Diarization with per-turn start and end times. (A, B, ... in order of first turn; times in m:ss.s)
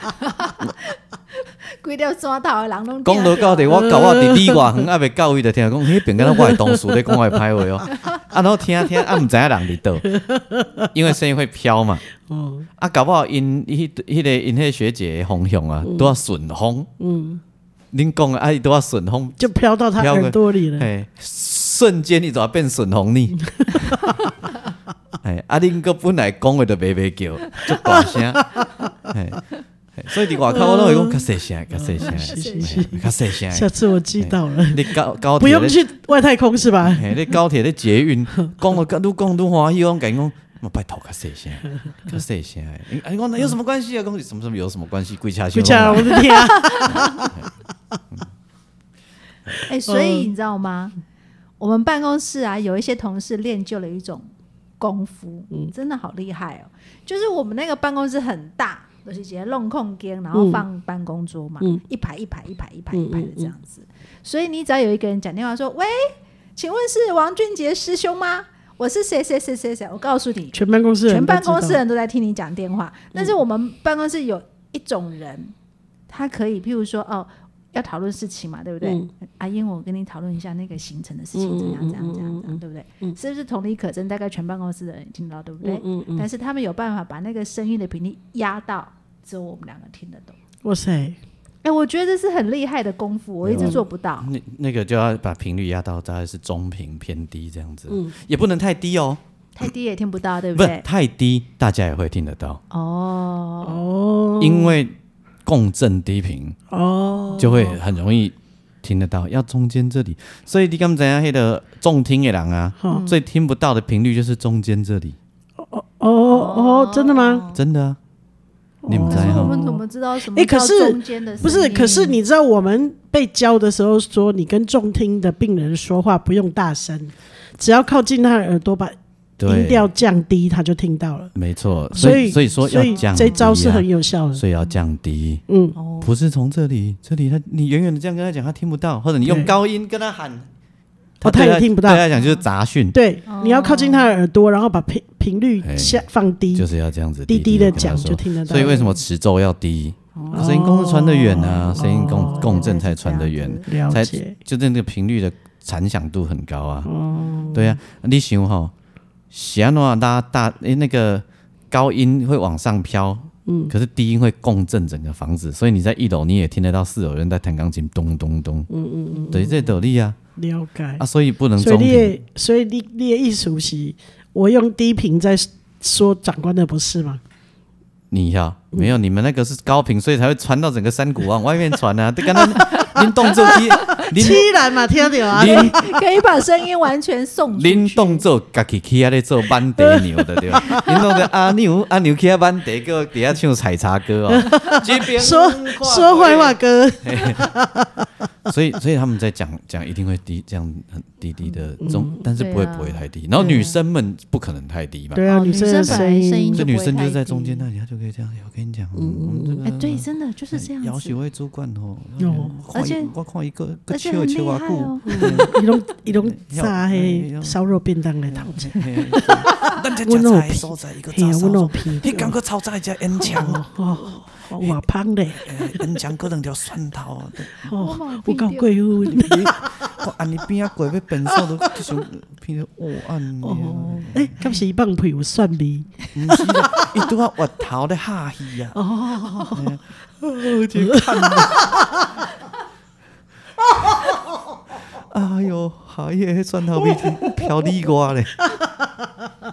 0:00.2-0:04.0 A
0:03.0-0:10.1 B
0:03.8-0:04.6 C
0:06.2-0:07.4 C
0:10.0-0:10.9 C
0:10.9-0:12.0 B
0:12.3-0:12.7 C
0:12.8-0:16.9 B
0:15.8-0:16.1 C
0:17.0-0:17.4 C
0:17.9-0:19.4 B
0:19.4-0:20.9 C
0:20.0-0:24.0 B
0:25.2-0:28.5 B
0:27.8-0:28.9 C
0:29.1-0:29.4 B
0:30.0-0:35.8 B
0:30.5-0:37.1 C
0:32.0-0:32.9 A
0:36.8-0:46.3 B
0:45.5-0:47.4 C
0:46.2-0:47.3 A
0:46.9-0:47.5 B
0:49.7-0:51.0 A
0:49.9-0:50.3 C
0:51.6-0:54.3 A
0:54.8-1:15.5 A
1:00.3-1:00.6 C
1:02.9-1:03.5 C
1:10.5-1:11.8 C
1:16.1-1:30.4 A
1:18.8-1:19.1 C
1:21.4-1:23.2 C
1:25.6-1:26.3 C
1:30.6-1:31.2 C
1:31.6-1:34.3 A
1:33.4-1:39.2 B
1:39.6-1:40.8 A
1:40.6-1:42.6 B
1:42.7-1:43.8 A
1:43.6-1:44.8 C
1:44.4-1:46.6 B
1:46.7-1:47.8 C
1:47.4-1:55.2 B
1:47.4-1:47.7 A
1:52.9-1:53.2 A
1:55.6-1:57.4 C
1:56.3-1:57.6 A
1:57.5-1:58.0 B
1:58.8-2:11.3 C
1:58.9-1:59.6 B
1:59.1-2:02.2 A
2:09.4-2:09.9 B
2:11.4-2:15.4 B
2:11.9-2:13.5 A
2:12.0-2:14.4 C
2:15.5-2:15.8 C
2:15.8-2:16.1 A
2:16.0-2:20.5 B
2:19.3-2:19.5 C
2:21.2-2:23.0 B
2:21.2-2:22.0 C
2:22.2-2:22.4 A
2:22.9-2:26.7 C
2:23.3-2:24.2 A
2:25.6-2:36.9 B
2:27.3-2:29.0 C
2:30.2-2:30.5 A
2:30.3-2:32.8 C
2:32.1-2:33.7 A
2:33.7-2:34.4 C
2:36.9-2:37.7 C
2:37.5-2:38.7 B
2:39.3-2:48.7 B
2:43.5-2:43.7 C
2:48.7-2:49.7 C
2:49.3-2:50.2 B
2:50.4-2:51.0 C
2:51.0-2:52.1 B
2:51.6-2:57.2 C
2:58.1-3:04.5 B
3:02.5-3:04.4 A
3:03.5-3:05.9 C
3:05.0-3:08.2 A
3:05.3-3:05.8 B
3:07.6-3:17.5 B
3:09.8-3:11.0 C
3:14.3-3:18.1 C
3:18.5-3:35.6 B
3:21.8-3:22.2 C
3:22.4-3:23.8 A
3:25.2-3:26.7 C
3:25.3-3:27.6 A
3:29.0-3:29.6 C
3:29.6-3:31.2 A
3:32.2-3:32.6 C
3:32.7-3:33.1 A
3:33.9-3:35.6 A
3:35.1-3:42.4 C
3:36.1-3:37.6 B
3:38.3-3:43.6 B
3:43.2-3:45.9 C
3:45.4-3:47.7 B
3:47.6-3:50.0 C
3:47.7-3:49.3 A
3:49.1-3:54.4 B
3:51.3-3:51.9 C
3:53.4-3:57.0 C
3:56.2-3:58.8 B
3:58.8-3:59.7 C
3:59.5-4:01.7 B
4:00.8-4:01.9 C
4:05.0-4:08.5 B